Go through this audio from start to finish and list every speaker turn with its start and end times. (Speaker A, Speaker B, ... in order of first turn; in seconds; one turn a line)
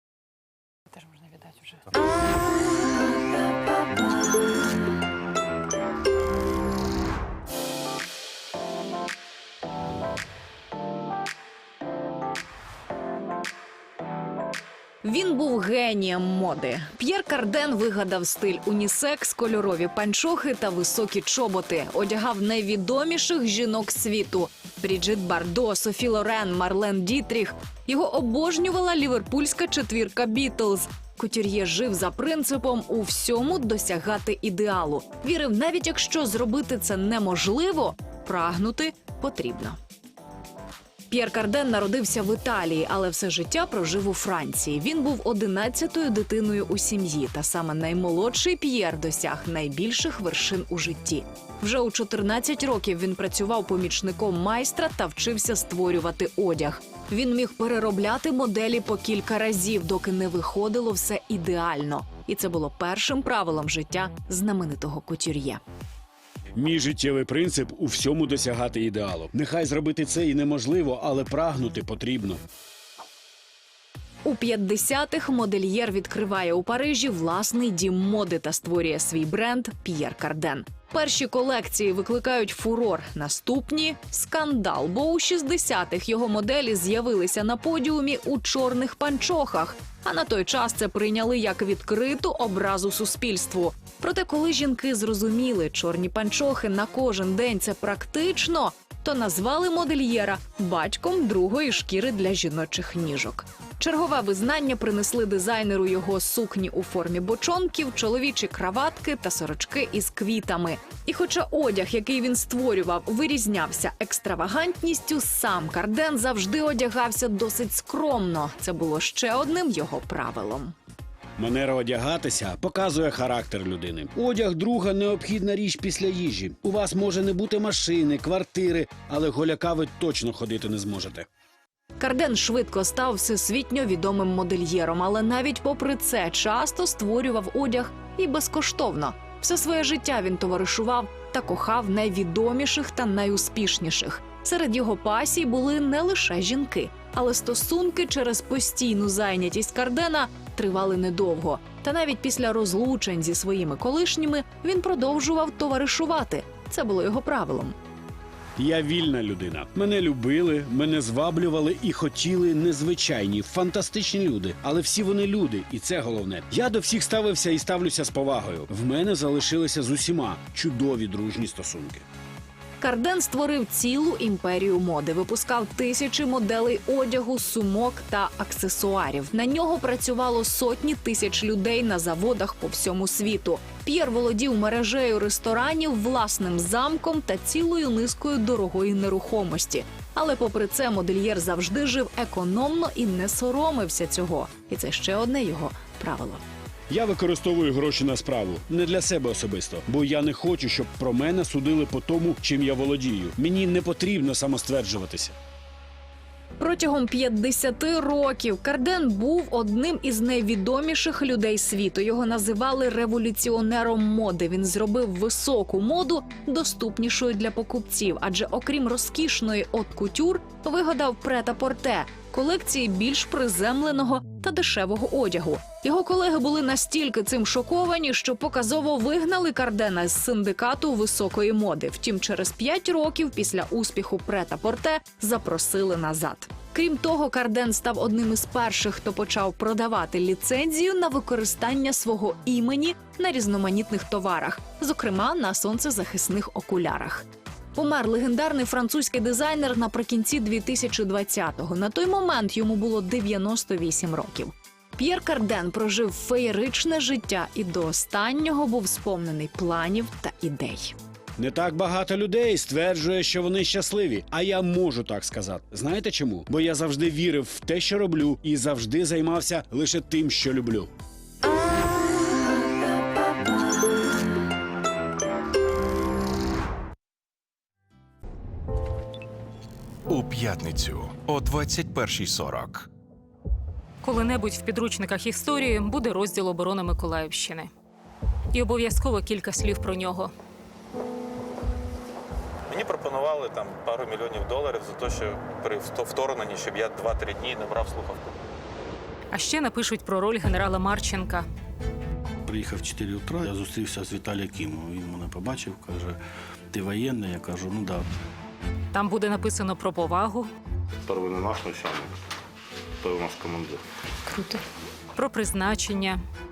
Speaker A: 15.0-39.8
Speaker A: 41.1-65.6
Speaker B: 66.6-72.4
Speaker A: 74.2-120.8
Speaker B: 121.4-131.3
Speaker A: 132.0-157.8
Speaker B: 158.6-172.0
Speaker A: 172.8-196.4
Speaker B: 196.9-205.3
Speaker A: 206.6-261.0
Speaker B: 261.4-270.9
Speaker C: 280.1-282.9
Speaker D: 284.0-287.7
Speaker D: 288.5-290.3
Speaker E: 292.7-298.3
Speaker D: 299.3-301.4
Speaker F: 302.5-306.2
Speaker F: 306.7-308.1
Speaker D: 308.9-310.5
Speaker G: 311.1-312.1
Speaker G: 313.0-313.8
Speaker D: 315.2-316.2